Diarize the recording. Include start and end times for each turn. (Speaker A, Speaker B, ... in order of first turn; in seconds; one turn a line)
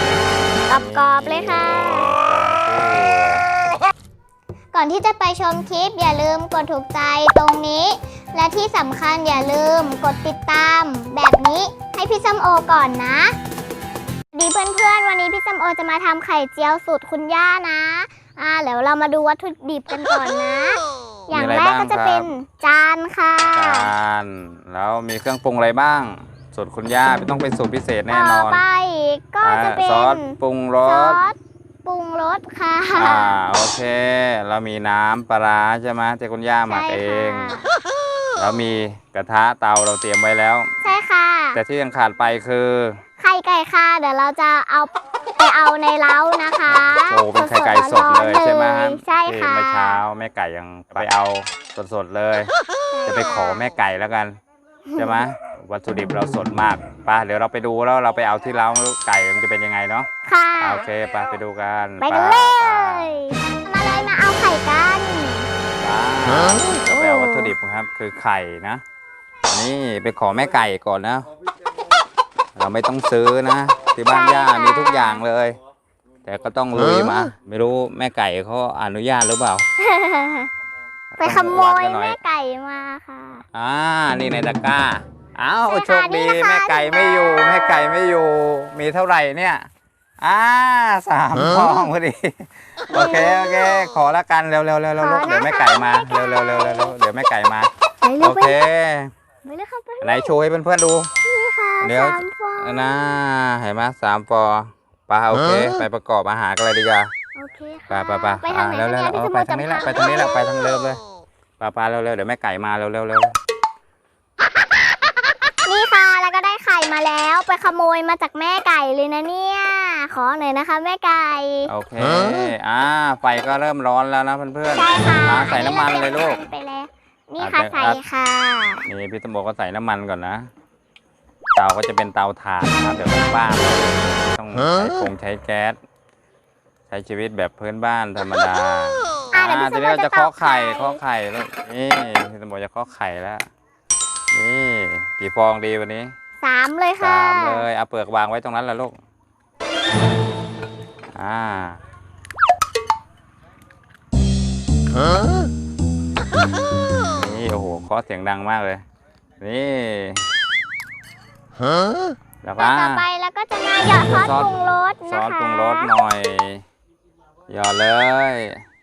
Speaker A: 0.7-2.1
Speaker B: 0.7-3.4
Speaker A: 4.7-13.3
Speaker A: 14.3-23.9
Speaker B: 21.3-22.2
Speaker B: 23.5-28.6
Speaker A: 28.1-33.4
Speaker B: 29.4-31.2
Speaker B: 33.0-37.5
Speaker A: 36.7-37.7
Speaker B: 38.4-40.7
Speaker A: 40.8-41.6
Speaker B: 41.5-43.0
Speaker A: 43.2-50.0
Speaker B: 46.7-52.5
Speaker A: 52.9-53.7
Speaker B: 53.0-54.4
Speaker A: 54.9-55.2
Speaker B: 55.0-60.1
Speaker A: 60.2-60.9
Speaker B: 60.6-63.2
Speaker A: 62.0-65.5
Speaker B: 65.8-68.8
Speaker A: 66.8-67.5
Speaker B: 69.5-71.3
Speaker B: 72.5-75.6
Speaker A: 74.0-75.2
Speaker B: 76.2-79.6
Speaker A: 79.8-80.5
Speaker A: 81.2-83.4
Speaker B: 81.2-82.2
Speaker B: 83.5-89.7
Speaker A: 85.7-88.0
Speaker B: 90.2-99.1
Speaker A: 92.9-93.7
Speaker A: 95.0-97.0
Speaker A: 98.0-98.6
Speaker A: 99.4-100.3
Speaker B: 100.0-101.1
Speaker A: 101.2-103.1
Speaker B: 101.8-107.1
Speaker A: 107.3-110.5
Speaker B: 107.9-111.0
Speaker B: 111.6-113.3
Speaker A: 115.7-121.7
Speaker B: 121.7-126.4
Speaker A: 124.7-128.9
Speaker B: 127.4-128.0
Speaker B: 128.8-130.5
Speaker B: 131.6-135.8
Speaker B: 136.9-143.5
Speaker A: 139.3-141.0
Speaker B: 144.3-146.1
Speaker A: 146.4-147.7
Speaker B: 147.0-148.9
Speaker B: 151.1-151.8
Speaker B: 157.1-158.8
Speaker B: 159.4-160.3
Speaker B: 162.4-163.0
Speaker A: 162.6-165.9
Speaker B: 163.8-164.5
Speaker B: 165.1-166.6
Speaker B: 167.5-168.6